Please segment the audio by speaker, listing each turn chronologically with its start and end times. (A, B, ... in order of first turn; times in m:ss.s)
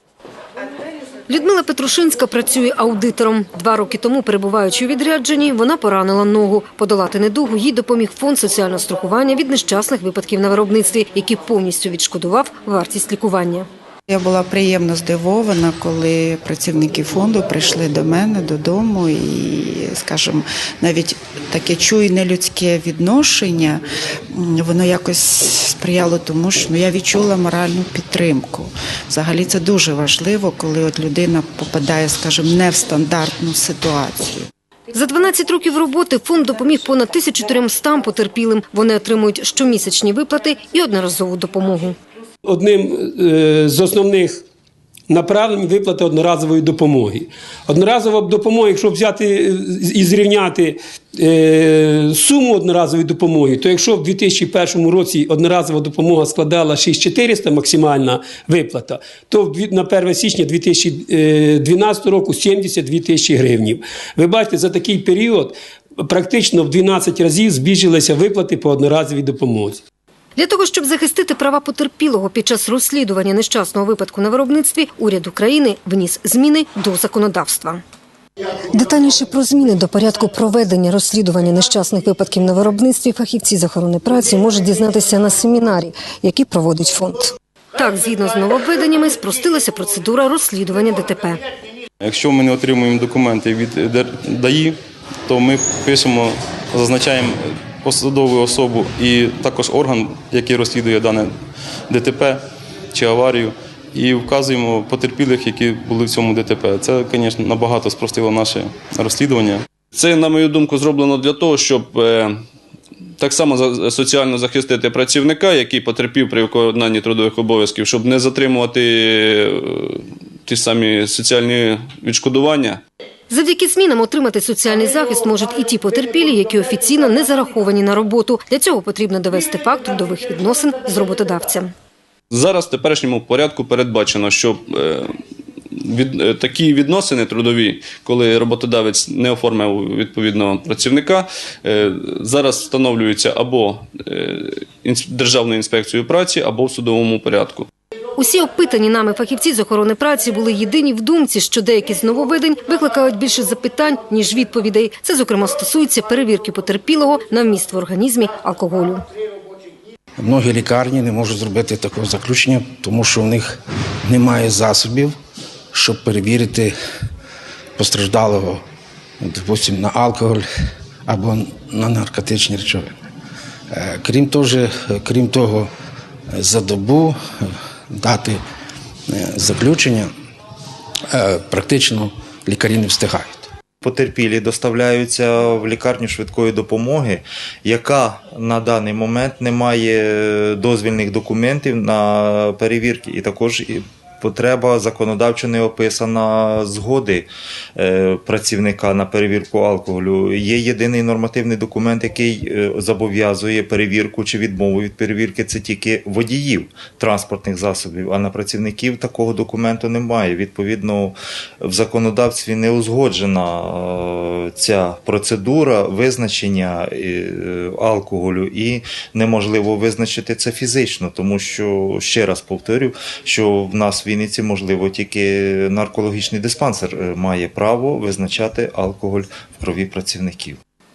0:01.3-0:13.7 A
0:14.1-0:23.8 B
0:24.3-0:34.5 B
0:34.9-0:42.0 A
0:42.4-0:44.4 C
0:45.1-1:09.8 C
1:10.4-1:17.8 A
1:18.7-1:31.4 A
1:32.0-1:41.3 D
1:41.9-1:49.6 D
1:49.9-1:52.3 E
1:53.2-2:02.8 E
2:03.3-2:11.7 A
2:12.3-2:15.1 E
2:15.7-2:27.7 E
2:28.2-2:39.0 A
2:40.2-2:45.2 F
2:45.7-2:46.8 F
2:47.8-2:48.6 F
2:49.2-2:50.5 F
2:51.0-2:53.0 F
2:53.7-2:55.7 F
2:56.3-2:58.4 F
2:59.1-3:00.1 F
3:01.1-3:03.5 F
3:03.8-3:50.6 G